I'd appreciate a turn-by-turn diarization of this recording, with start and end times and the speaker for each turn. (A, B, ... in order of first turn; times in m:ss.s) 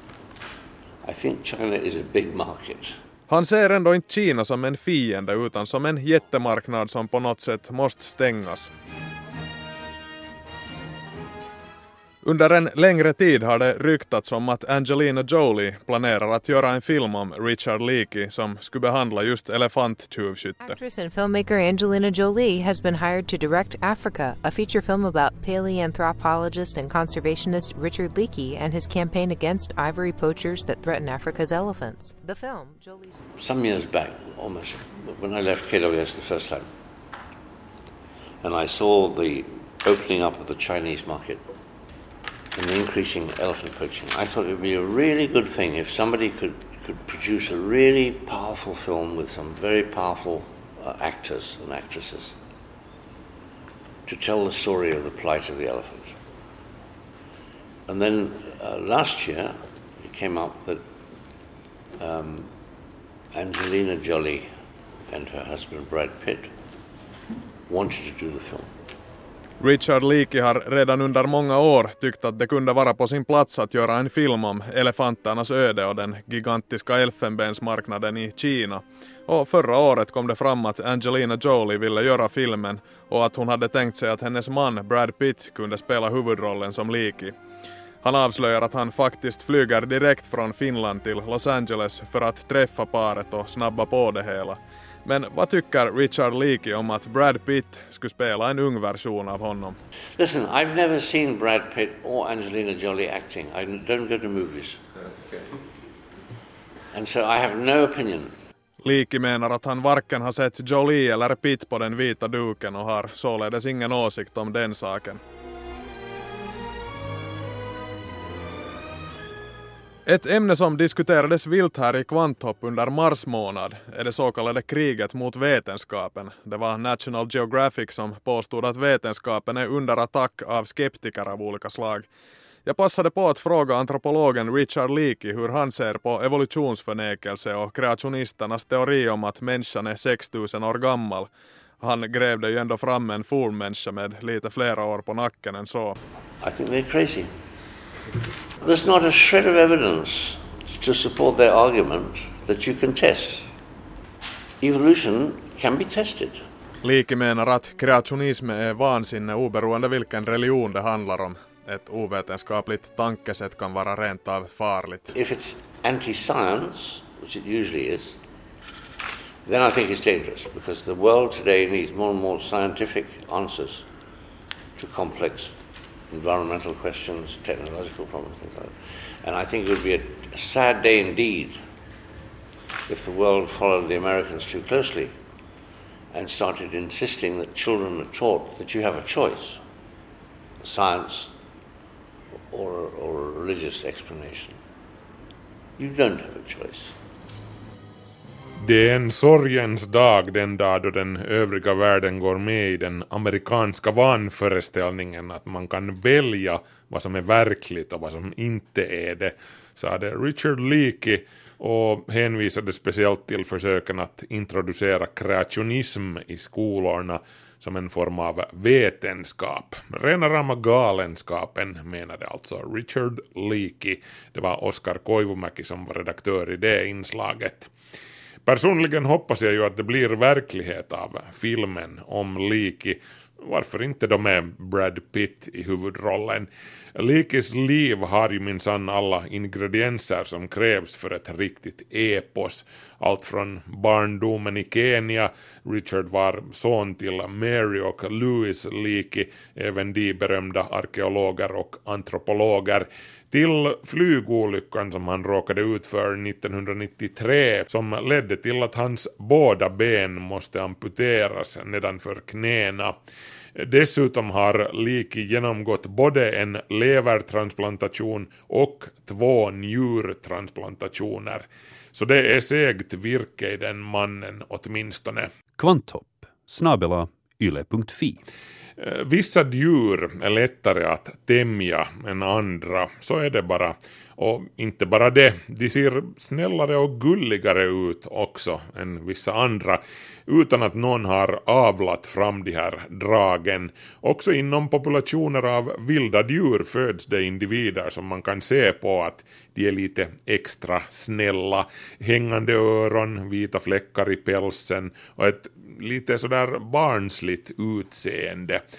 0:01.0-0:03.0 A
0:03.3-0:08.7 B
0:12.2-0:20.8 B
0:20.6-0:33.1 C
0:33.4-0:36.7 A
0:38.4-0:41.4 A
0:42.6-0:52.4 A
0:54.1-0:56.2 A
0:57.9-1:00.8 A
1:02.0-1:02.5 A
1:03.3-1:04.5 A
1:05.1-1:06.5 A
1:07.7-1:08.8 A
1:09.6-1:27.4 B
1:28.0-1:39.8 B
1:40.2-1:44.8 A
1:46.9-1:48.3 A
1:48.8-1:55.2 B
2:00.1-2:12.1 B
2:12.6-2:21.3 B
2:21.8-2:26.0 B
2:26.4-2:27.3 A
2:28.6-2:33.5 A
2:34.6-2:36.4 A
2:36.8-2:45.1 B
2:45.1-2:48.2 A
2:49.4-2:53.9 A
2:54.8-2:55.6 A
2:56.1-3:01.6 A
3:02.9-3:05.1 A
3:06.1-3:09.6 A
3:10.6-3:11.3 A
3:12.5-3:14.6 A
3:15.8-3:17.0 A
3:18.6-3:47.7 D
3:48.5-4:23.0 D
4:23.6-4:35.3 D
4:35.6-4:38.2 E
4:38.8-5:08.6 D